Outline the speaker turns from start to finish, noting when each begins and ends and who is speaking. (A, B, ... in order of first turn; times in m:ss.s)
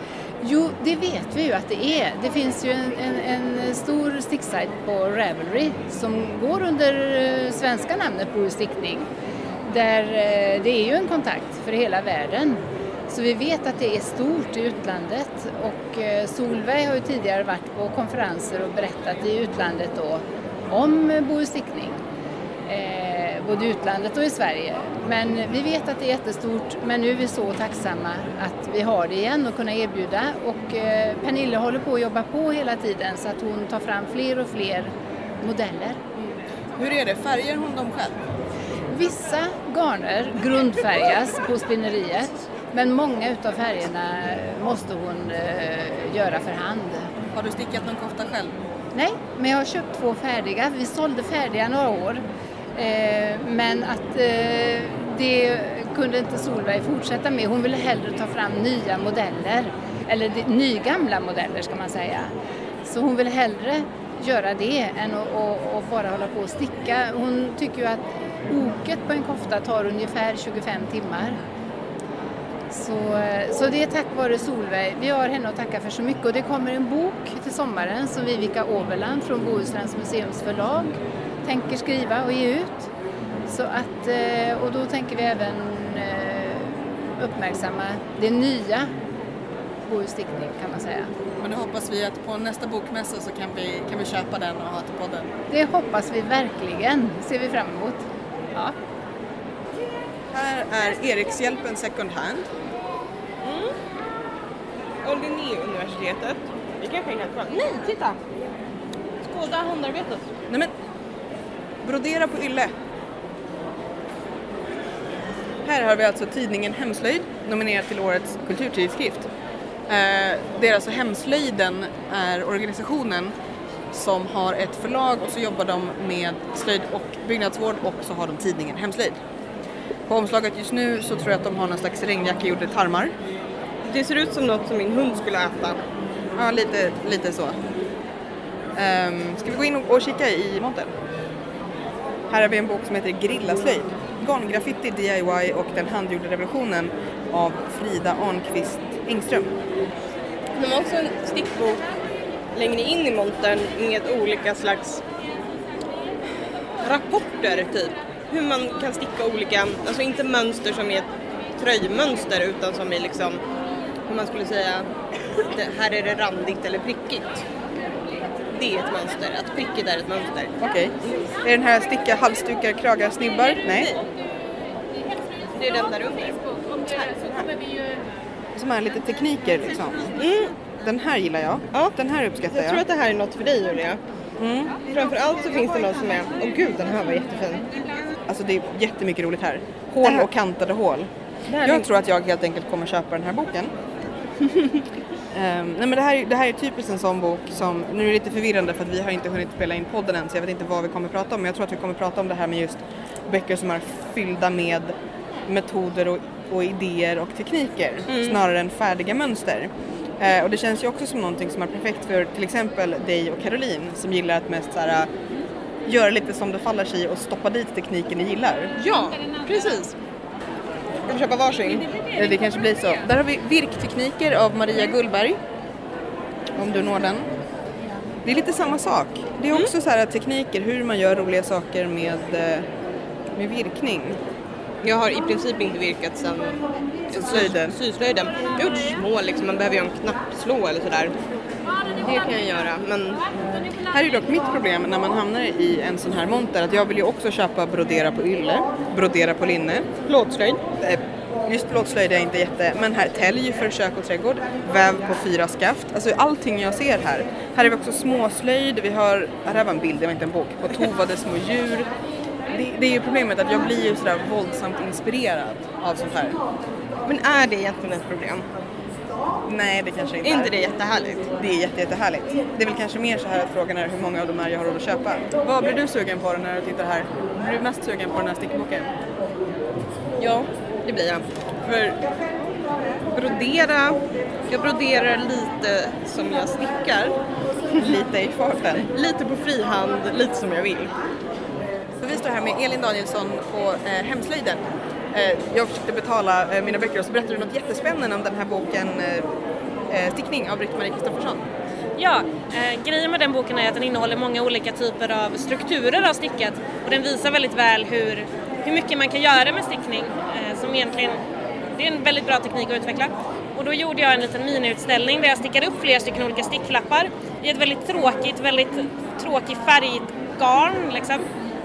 0:00.4-0:09.1 A
0:09.6-0:22.0 A
0:22.7-0:36.0 A
0:36.2-0:38.2 B
0:38.9-0:47.1 A
0:47.3-0:48.6 B
0:48.9-1:02.3 A
1:02.8-1:11.4 A
1:12.7-1:22.9 A
1:23.5-1:28.9 A
1:29.8-1:31.1 A
1:31.4-1:35.3 B
1:35.5-1:38.8 A
1:40.3-1:42.5 B
1:43.4-1:43.7 C
1:45.0-1:48.2 C
1:49.2-1:50.3 C
1:51.8-1:52.7 B
1:55.6-1:59.3 B
1:59.9-2:03.3 B
2:03.9-2:09.2 B
2:10.1-2:13.1 B
2:13.8-2:15.8 C
2:16.4-2:17.6 B
2:18.7-2:20.9 B
2:22.3-2:29.5 B
2:30.5-2:31.9 C
2:32.5-2:35.0 C
2:36.8-2:43.4 C
2:44.0-2:47.5 C
2:48.5-2:51.3 C
2:50.6-2:54.0 B
2:55.5-2:57.5 C
2:58.5-3:00.1 B
3:00.2-3:00.5 C
3:00.8-3:02.8 B
3:01.7-3:04.0 C
3:04.4-3:04.8 B
3:04.9-3:07.7 C
3:08.3-3:11.1 B
3:10.0-3:10.3 C
3:11.5-3:11.9 C
3:11.6-3:13.7 B
3:15.3-3:24.9 B
3:25.5-3:35.1 B
3:28.1-3:28.4 C
3:35.8-3:38.7 B
3:38.8-3:40.0 C
3:41.0-3:41.9 C
3:42.1-3:45.4 B
3:46.6-3:47.3 B
3:48.2-3:52.7 B
3:53.4-3:54.2 B
3:54.8-4:01.1 C
3:57.1-3:57.8 B
4:01.9-4:03.2 C
4:03.9-4:09.8 B
4:10.0-4:10.6 C
4:10.8-4:21.9 B
4:22.5-4:26.4 B
4:27.1-4:28.5 C
4:29.5-4:30.5 B
4:30.2-4:31.3 C
4:31.4-4:38.9 B
4:40.2-4:42.0 C
4:43.1-4:47.2 C
4:47.7-4:48.9 B
4:48.9-4:51.0 C
4:52.0-4:59.3 B
4:59.9-5:01.4 B
5:02.0-5:21.3 D